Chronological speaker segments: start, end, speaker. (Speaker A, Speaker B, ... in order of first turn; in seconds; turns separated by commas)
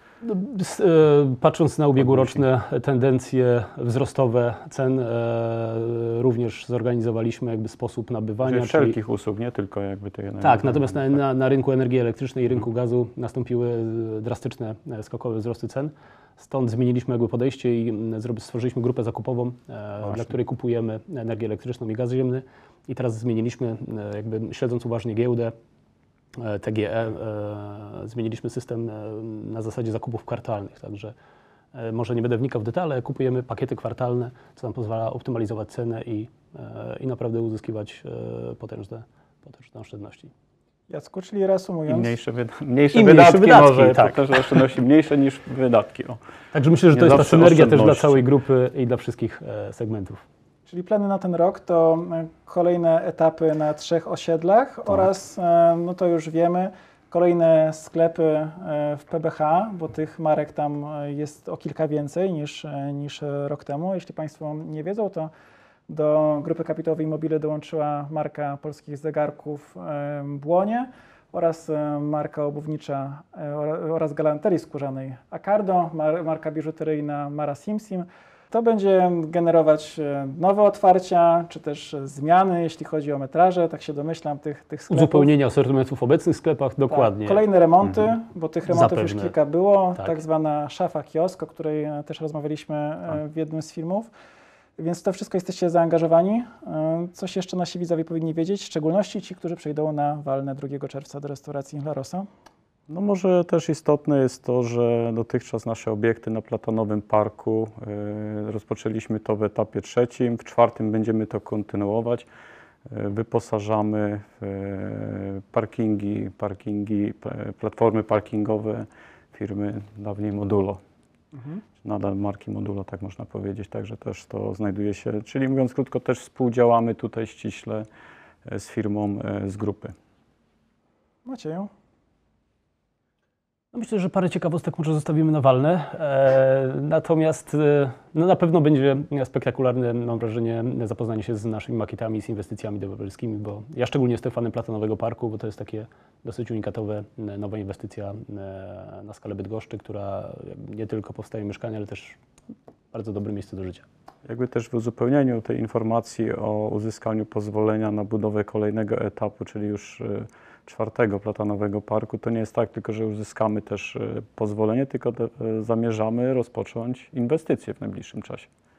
Speaker A: 0.2-9.0, Speaker B: 8.4-11.0, Speaker A: 10.4-25.5, Speaker A: 26.4-31.1, Speaker A: 31.7-40.3, Speaker C: 40.9-42.1, Speaker B: 41.9-46.2, Speaker A: 42.9-44.7, Speaker A: 46.5-50.2, Speaker B: 46.9-48.2, Speaker C: 50.7-65.3, Speaker C: 65.9-85.3, Speaker A: 84.9-87.5, Speaker C: 86.9-94.1, Speaker A: 88.7-89.4, Speaker A: 90.0-90.2, Speaker C: 94.8-102.3, Speaker B: 102.9-112.3, Speaker B: 112.9-120.8, Speaker C: 121.3-121.6, Speaker B: 121.8-127.9, Speaker B: 128.5-129.9, Speaker C: 131.2-131.7, Speaker A: 133.7-152.2, Speaker A: 152.9-153.9, Speaker B: 154.3-168.5